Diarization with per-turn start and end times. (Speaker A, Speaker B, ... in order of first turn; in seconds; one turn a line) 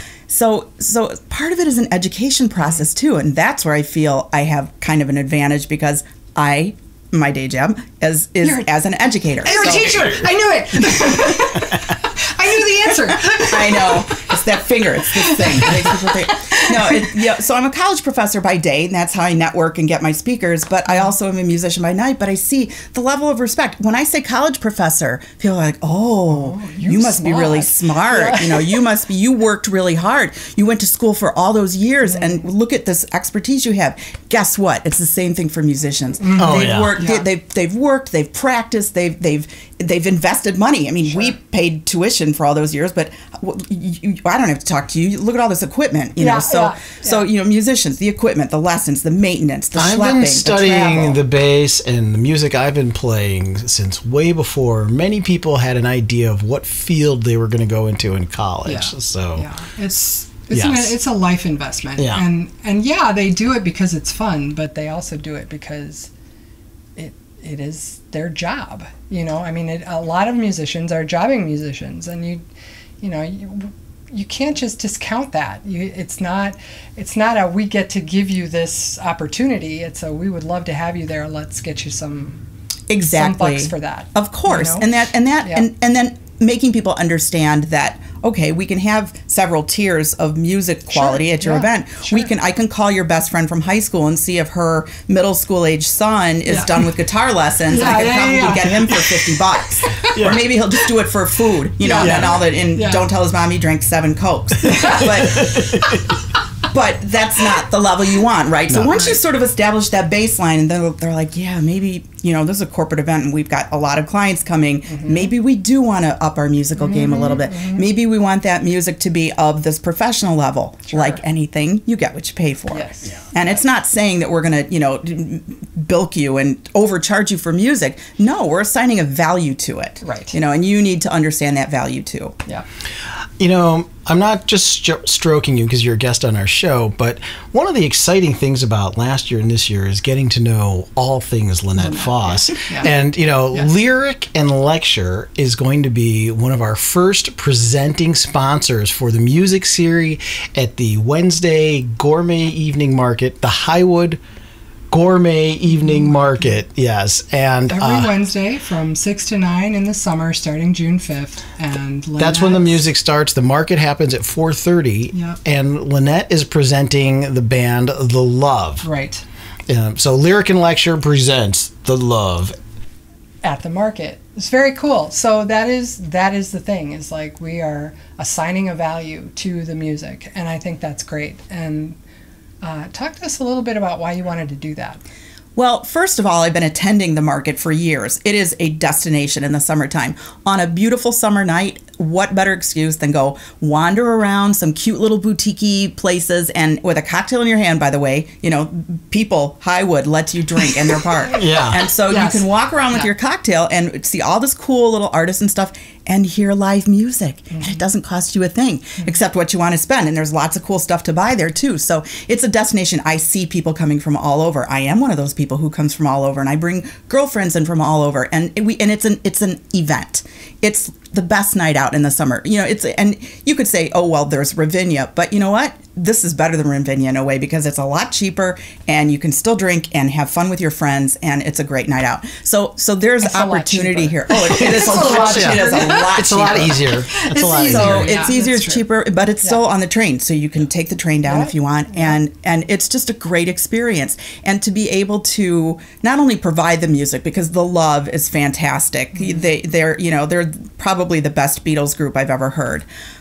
Speaker A: 0.3-10.3
Speaker B: 8.4-8.7
Speaker B: 9.4-14.3
Speaker A: 13.4-51.2
Speaker B: 15.1-17.2
Speaker B: 26.3-28.8
Speaker B: 32.1-32.4
Speaker B: 36.2-37.3
Speaker C: 36.4-37.0
Speaker B: 46.2-47.3
Speaker C: 49.8-59.5
Speaker B: 58.6-66.1
Speaker C: 60.5-60.9
Speaker C: 62.0-62.2
Speaker B: 67.0-72.5
Speaker B: 73.0-82.4
Speaker A: 82.9-105.6
Speaker B: 83.1-84.9
Speaker B: 90.9-92.3
Speaker B: 96.5-96.7
Speaker B: 97.7-99.0
Speaker C: 100.0-100.4
Speaker B: 101.8-103.1
Speaker C: 102.0-102.3
Speaker B: 104.7-105.5
Speaker C: 104.8-105.9
Speaker A: 106.7-132.4
Speaker C: 108.7-109.0
Speaker B: 114.9-115.3
Speaker B: 116.8-117.8
Speaker B: 120.9-121.2
Speaker B: 122.7-123.5
Speaker B: 130.0-130.3
Speaker C: 133.4-154.2
Speaker B: 141.8-142.1
Speaker B: 142.6-142.9
Speaker C: 154.9-158.1
Speaker B: 155.7-156.6
Speaker B: 157.7-162.8
Speaker C: 162.2-168.8
Speaker B: 165.1-165.4
Speaker B: 168.8-169.2
Speaker C: 169.7-172.6
Speaker B: 173.4-182.0
Speaker B: 182.6-185.0
Speaker A: 185.6-236.8
Speaker C: 201.3-201.8
Speaker B: 202.1-203.1
Speaker B: 207.6-207.8
Speaker B: 233.2-238.8
Speaker C: 234.5-238.3
Speaker A: 237.7-252.9
Speaker B: 241.2-242.2
Speaker B: 249.2-249.4